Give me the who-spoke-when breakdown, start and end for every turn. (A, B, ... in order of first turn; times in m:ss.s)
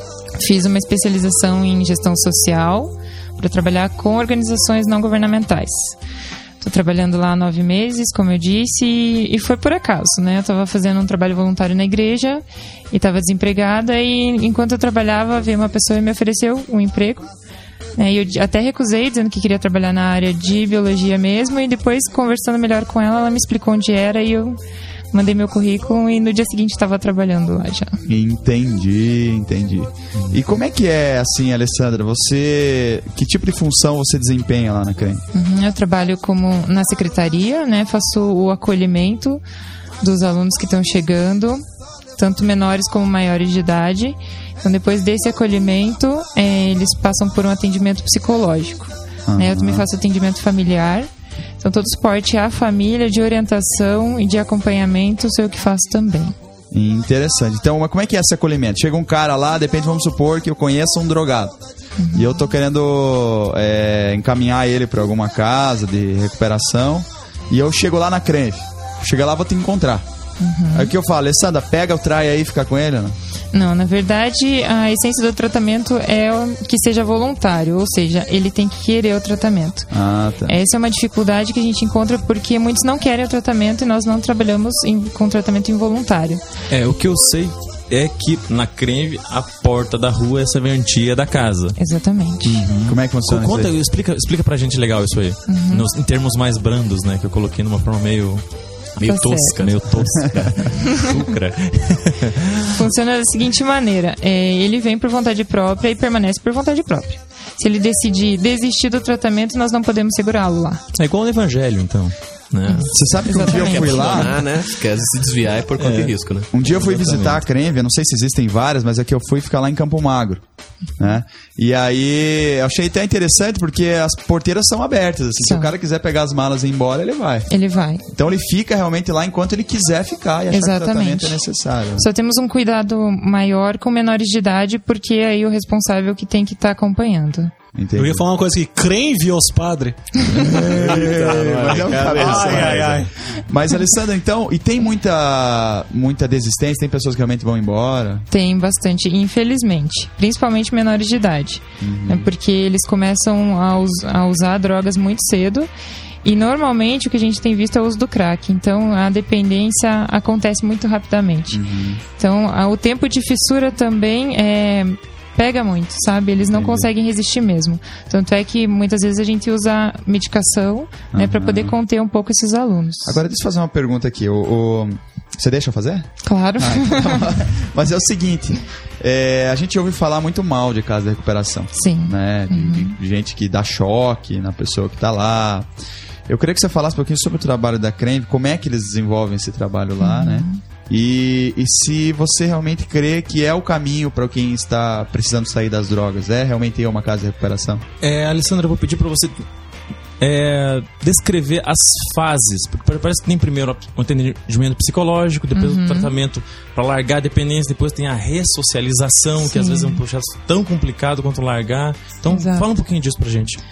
0:00.4-0:06.0 A
0:06.6-0:17.3 A
0:18.0-0:24.6 A
0:25.1-0:28.0 A
0:28.0-0:35.2 B
0:35.3-0:39.4 A
0:40.0-0:41.6 A
0:42.2-0:51.1 A
0:49.3-0:49.8 B
0:51.6-0:56.4 A
0:56.7-1:01.6 B
1:02.0-1:02.4 A
1:02.1-1:10.1 B
1:10.4-1:10.9 A
1:10.7-1:13.2 B
1:13.5-1:19.9 A
1:19.9-1:20.6 B
1:20.5-1:26.4 A
1:26.7-1:31.8 C
1:31.8-1:32.7 A
1:32.4-1:38.4 C
1:32.8-1:33.7 B
1:35.5-1:35.9 A
1:39.0-1:40.5 D
1:39.0-1:39.6 A
1:39.0-1:42.8 C
1:42.7-1:50.8 A
1:50.9-1:54.3 C
1:52.7-1:54.2 A
1:52.9-1:54.4 B
1:53.7-1:56.5 D
1:55.8-1:57.4 C
1:56.5-2:00.4 B
2:01.0-2:07.5 B
2:05.4-2:05.7 A
2:07.5-2:08.0 A
2:08.1-2:12.1 B
2:10.5-2:11.4 A
2:12.0-2:17.5 A
2:17.7-2:18.2 B
2:18.0-2:20.2 E
2:20.4-2:20.8 C
2:20.4-2:28.3 B
2:20.4-2:23.0 D
2:20.9-2:23.1 E
2:28.3-2:35.7 A
2:31.8-2:32.3 B
2:36.2-2:41.6 A
2:41.5-2:42.0 B
2:42.2-2:53.2 A
2:46.5-2:46.9 B
2:51.1-2:51.8 B
2:53.1-3:05.7 B
2:56.2-2:57.3 A
3:01.7-3:03.0 A
3:06.3-3:17.8 B
3:10.0-3:10.6 A
3:18.0-3:19.4 C
3:20.2-3:33.6 C
3:25.6-3:26.1 A
3:29.4-3:30.0 A
3:32.3-3:32.7 A